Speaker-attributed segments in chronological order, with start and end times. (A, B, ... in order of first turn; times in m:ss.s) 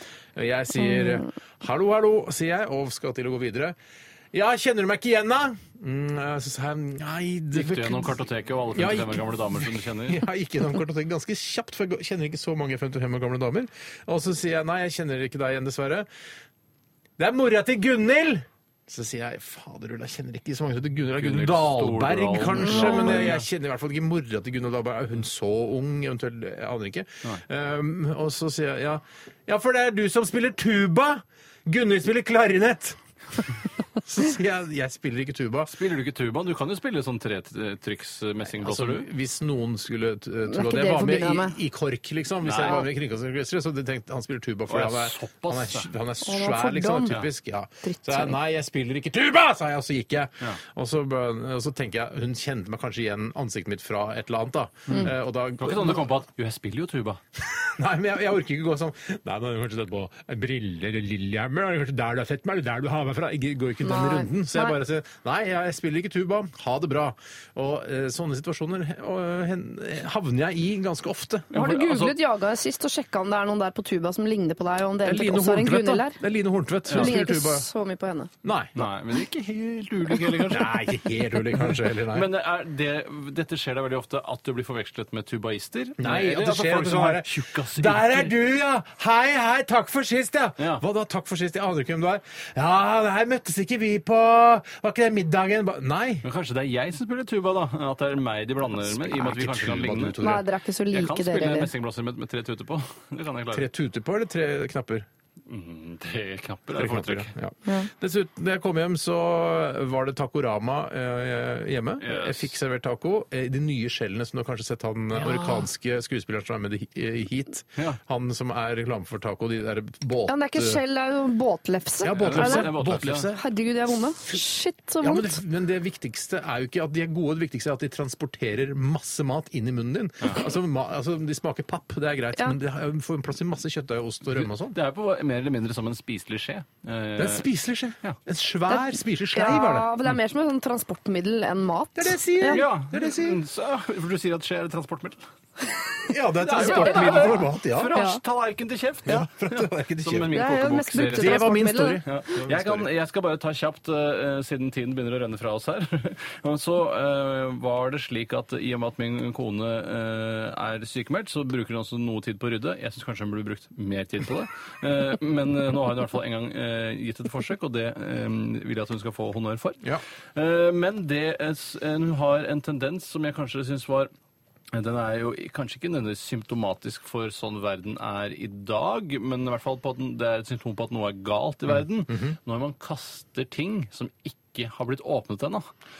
0:00.4-0:03.8 A
0:00.9-0:01.2 B
0:04.3-0:08.2 A
0:07.5-0:10.2 C
0:08.7-0:16.1 A
0:17.2-0:33.0 A
0:21.2-0:23.4 C
0:22.7-0:23.1 B
0:34.0-0:35.7 A
0:35.7-0:39.1 C
0:38.5-0:56.0 A
0:40.5-0:41.6 B
0:42.4-0:42.8 C
0:44.7-0:45.9 C
0:46.2-0:47.2 B
0:47.8-0:48.4 B
0:55.6-0:57.2 C
0:57.4-1:11.6 A
1:03.8-1:04.8 B
1:11.5-1:12.2 C
1:11.5-1:16.2 B
1:15.0-1:17.7 A
1:16.9-1:18.3 B
1:18.4-1:18.7 A
1:18.7-1:20.9 C
1:20.5-1:22.3 A
1:21.5-1:28.3 C
1:26.0-1:36.2 A
1:36.2-1:40.2 C
1:38.7-1:40.4 A
1:40.2-1:41.7 B
1:40.9-1:43.7 C
1:43.5-1:45.1 A
1:45.5-1:47.3 C
1:46.7-2:00.8 A
1:52.0-1:52.5 C
1:55.3-1:55.6 B
2:00.3-2:02.7 B
2:02.0-2:03.4 A
2:02.1-2:03.3 C
2:03.3-2:05.4 B
2:05.0-2:14.8 A
2:14.3-2:17.5 C
2:17.2-2:19.9 A
2:18.7-2:22.6 B
2:22.0-2:23.4 A
2:22.5-2:25.2 C
2:26.1-2:27.9 A
2:26.4-2:49.8 C
2:26.7-2:26.9 B
2:27.9-2:28.2 B
2:29.0-2:30.4 A
2:30.3-2:32.0 B
2:31.0-2:32.9 A
2:50.3-2:54.1 C
2:54.7-3:05.7 C
3:01.7-3:02.4 A